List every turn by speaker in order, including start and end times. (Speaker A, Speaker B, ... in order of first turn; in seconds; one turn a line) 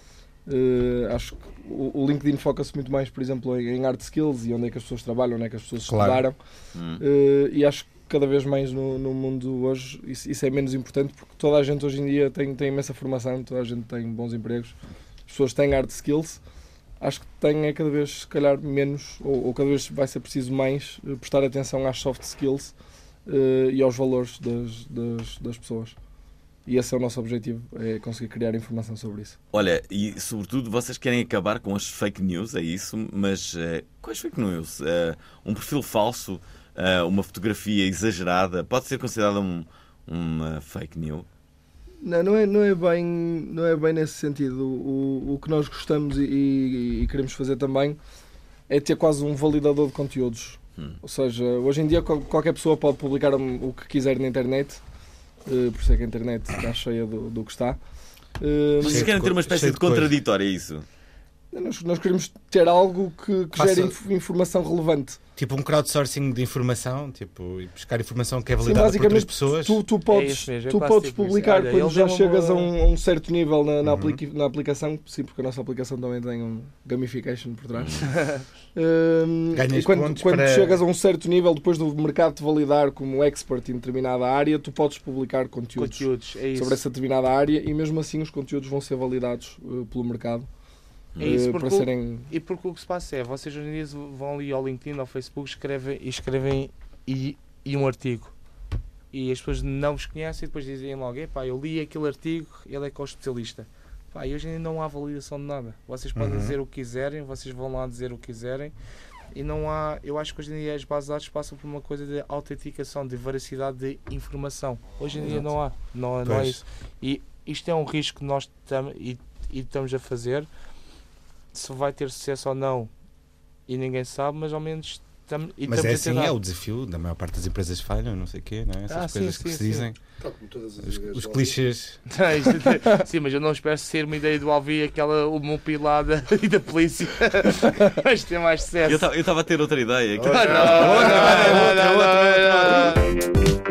Speaker A: 0.5-6.4
Speaker B: 5.9-6.2
Speaker C: 6.8-7.0
Speaker A: 7.0-14.7
Speaker A: 15.3-16.4
Speaker A: 17.0-22.7
Speaker A: 23.3-25.9
Speaker A: 26.7-29.4
Speaker C: 29.5-41.3
Speaker A: 42.0-48.0
Speaker A: 48.7-54.8
Speaker A: 55.5-57.8
Speaker A: 58.4-59.1
Speaker C: 58.8-60.9
Speaker B: 58.8-60.2
Speaker A: 61.5-65.2
Speaker B: 63.5-64.0
Speaker B: 65.4-69.8
Speaker A: 68.6-78.1
Speaker D: 70.1-72.7
Speaker B: 73.8-74.2
Speaker C: 77.7-78.1
Speaker D: 78.0-78.5
Speaker A: 78.8-90.5
Speaker B: 79.5-80.8
Speaker D: 85.8-86.8
Speaker A: 91.2-92.3
Speaker D: 91.2-98.3
Speaker D: 99.1-108.7
Speaker B: 106.2-106.6
Speaker D: 109.3-120.5
Speaker B: 115.2-115.5
Speaker B: 116.2-116.6
Speaker D: 121.5-122.9
Speaker D: 123.7-126.4
Speaker B: 125.7-130.0
Speaker D: 128.9-129.9
Speaker E: 130.2-131.6
Speaker B: 130.8-132.0
Speaker D: 132.1-139.1
Speaker C: 138.9-143.0
Speaker E: 140.2-141.7
Speaker D: 140.3-143.1